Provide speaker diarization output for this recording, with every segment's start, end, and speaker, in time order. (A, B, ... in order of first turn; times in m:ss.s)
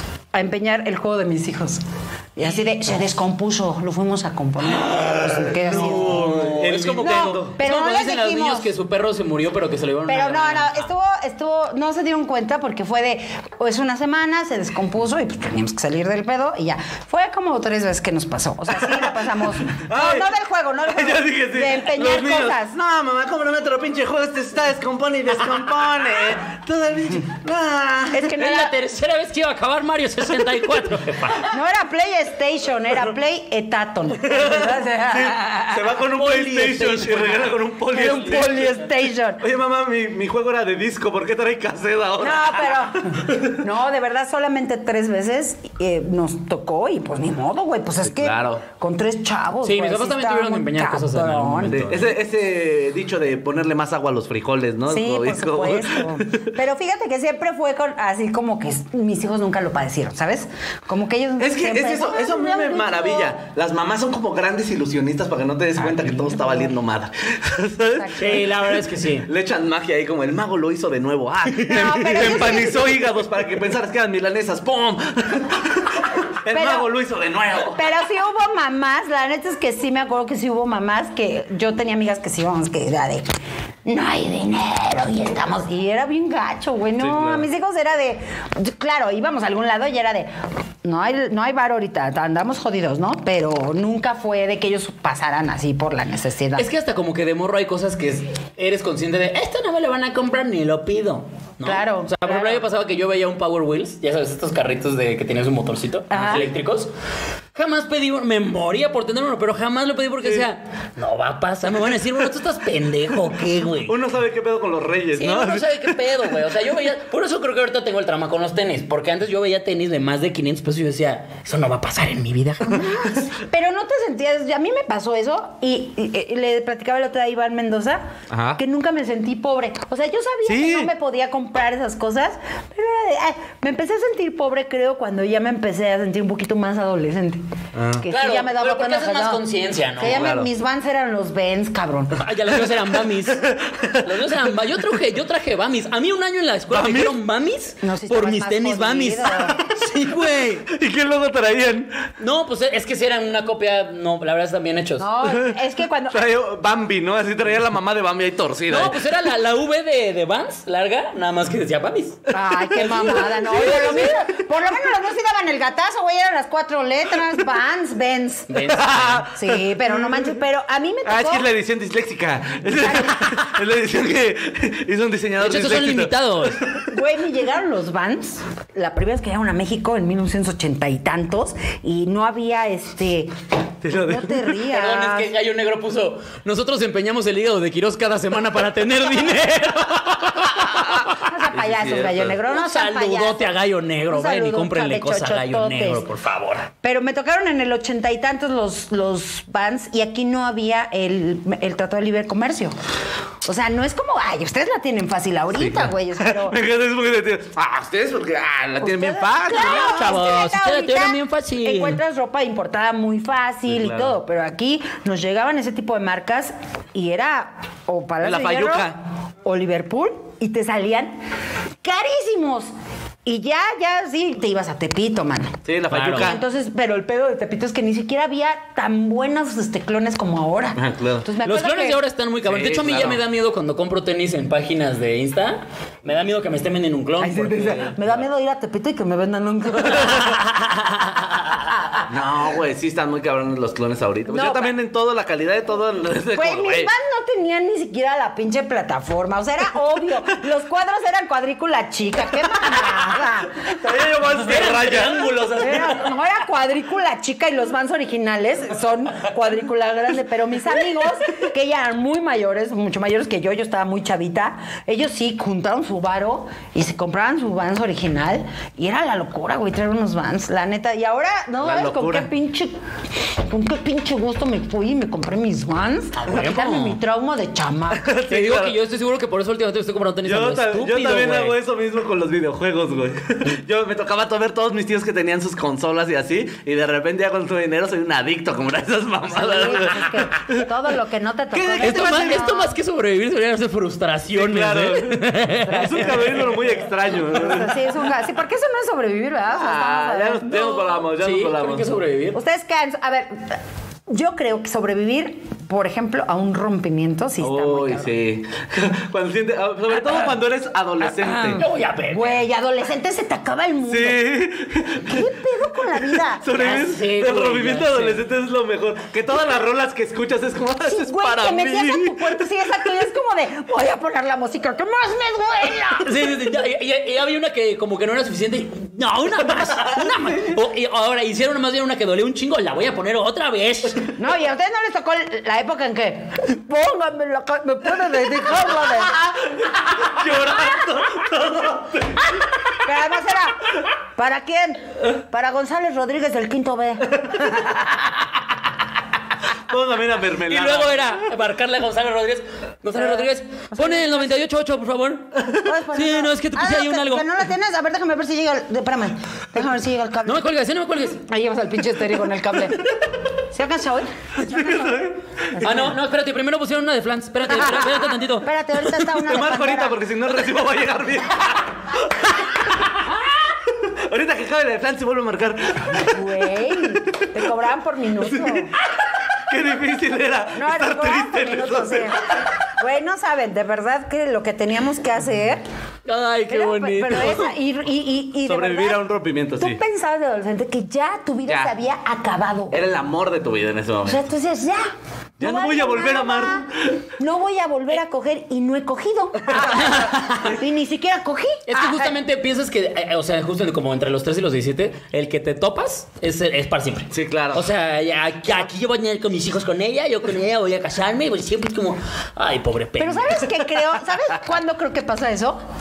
0:00.3-0:01.8 A
0:02.4-0:06.5 A
0:05.0-0:10.9 B
0:05.7-0:07.6 C
0:07.0-0:08.7 A
0:10.1-0:22.7 A
0:19.6-0:20.3 C
0:20.9-0:28.3 C
0:28.1-0:28.7 A
0:28.3-0:31.5 B
0:31.5-0:35.8 A
0:34.3-0:38.9 C
0:36.1-0:37.4 B
0:37.9-0:39.4 A
0:37.9-0:38.4 B
0:39.4-0:43.5 C
0:42.2-0:52.0 A
0:48.0-0:48.6 C
0:49.6-0:52.1 B
0:51.7-0:56.5 C
0:54.9-1:03.3 A
1:01.4-1:17.9 C
1:08.0-1:08.4 A
1:08.1-1:09.3 B
1:11.5-1:12.0 B
1:11.7-1:12.9 A
1:16.5-1:16.9 A
1:17.7-1:23.3 A
1:23.8-1:30.3 A
1:27.0-1:27.5 C
1:30.8-1:36.7 A
1:36.6-1:46.9 B
1:41.6-1:42.6 A
1:46.1-1:46.5 A
1:47.5-1:53.9 B
1:53.8-1:56.2 C
1:55.1-2:02.8 B
2:02.6-2:17.4 A
2:08.3-2:08.6 C
2:10.4-2:10.9 C
2:17.7-2:18.1 C
2:18.0-2:22.2 A
2:18.1-2:20.2 B
2:20.0-2:20.5 C
2:22.1-2:23.5 B
2:23.2-2:24.1 C
2:24.0-2:30.7 B
2:26.7-2:27.2 C
2:27.8-2:29.6 A
2:30.6-2:32.1 C
2:32.2-2:35.1 B
2:35.0-2:36.2 A
2:35.2-2:35.6 C
2:36.1-2:39.0 C
2:38.7-2:44.1 B
2:42.3-2:43.8 C
2:42.3-2:48.5 A
2:48.5-2:49.3 B
2:48.6-2:50.3 C
2:49.3-2:51.5 A
2:51.0-2:56.8 C
2:52.7-2:53.1 A
2:55.4-2:56.6 B
2:56.8-3:03.3 A
3:03.8-3:04.5 C
3:03.9-3:05.3 A
3:04.7-3:11.0 B
3:10.7-3:12.4 C
3:11.1-3:13.5 A
3:12.5-3:16.7 B
3:14.1-3:16.0 A
3:16.8-3:22.7 A
3:23.4-3:26.6 A
3:25.5-3:29.9 C
3:28.8-3:41.2 A
3:29.5-3:32.0 B
3:33.7-3:34.2 C
3:38.2-3:39.0 C
3:41.8-3:42.7 A
3:43.2-3:45.6 A
3:45.6-3:46.4 C
3:45.9-3:46.4 B
3:46.1-3:52.0 A
3:50.7-3:51.3 C
3:51.4-3:58.0 B
3:52.4-3:53.2 C
3:57.2-4:00.4 A
4:00.2-4:01.0 B
4:02.1-4:06.9 C
4:04.3-4:04.7 A
4:06.3-4:13.7 A
4:13.6-4:15.4 C
4:14.3-4:16.1 B
4:15.6-4:32.8 A
4:31.6-4:32.3 C
4:33.4-4:38.1 A
4:36.1-4:37.0 B
4:37.9-4:38.8 C
4:38.2-4:41.6 B
4:40.2-4:50.6 C
4:49.2-4:52.8 A
4:51.5-4:52.4 C
4:51.8-4:56.5 B
4:54.3-4:57.9 C
4:55.7-5:01.0 A
4:59.5-5:02.0 C
5:01.2-5:02.4 B
5:02.3-5:08.1 A
5:07.4-5:11.6 C
5:11.1-5:12.4 B
5:11.5-5:14.2 A
5:13.9-5:15.3 C
5:15.0-5:16.4 A
5:16.0-5:22.5 C
5:16.5-5:18.2 B
5:20.9-5:26.2 A
5:26.0-5:34.1 B
5:29.8-5:30.5 A
5:34.2-5:39.2 A
5:39.2-5:42.3 C
5:42.8-5:47.8 A
5:49.7-5:51.1 C
5:50.4-5:55.3 B
5:52.9-5:54.4 A
5:55.4-5:55.7 C
5:55.6-6:00.4 A
5:55.9-5:57.2 B
6:00.2-6:01.2 B
6:01.3-6:02.9 A
6:03.5-6:06.0 A
6:04.4-6:05.6 C
6:05.6-6:08.5 B
6:07.5-6:10.0 A
6:09.0-6:12.6 C
6:13.7-6:17.3 C
6:16.0-6:18.7 A
6:18.3-6:18.7 C
6:19.4-6:22.2 C
6:20.5-6:25.6 A
6:26.0-6:27.5 B
6:26.5-6:29.0 A
6:28.4-6:29.8 C
6:29.6-6:32.8 A
6:31.5-6:31.7 C
6:32.7-6:34.3 C
6:34.0-6:36.6 A
6:35.4-6:37.0 C
6:37.2-6:42.1 A
6:39.5-6:39.9 C
6:39.6-6:40.5 B
6:41.7-6:53.5 B
6:47.1-6:47.6 C
6:53.0-6:55.6 A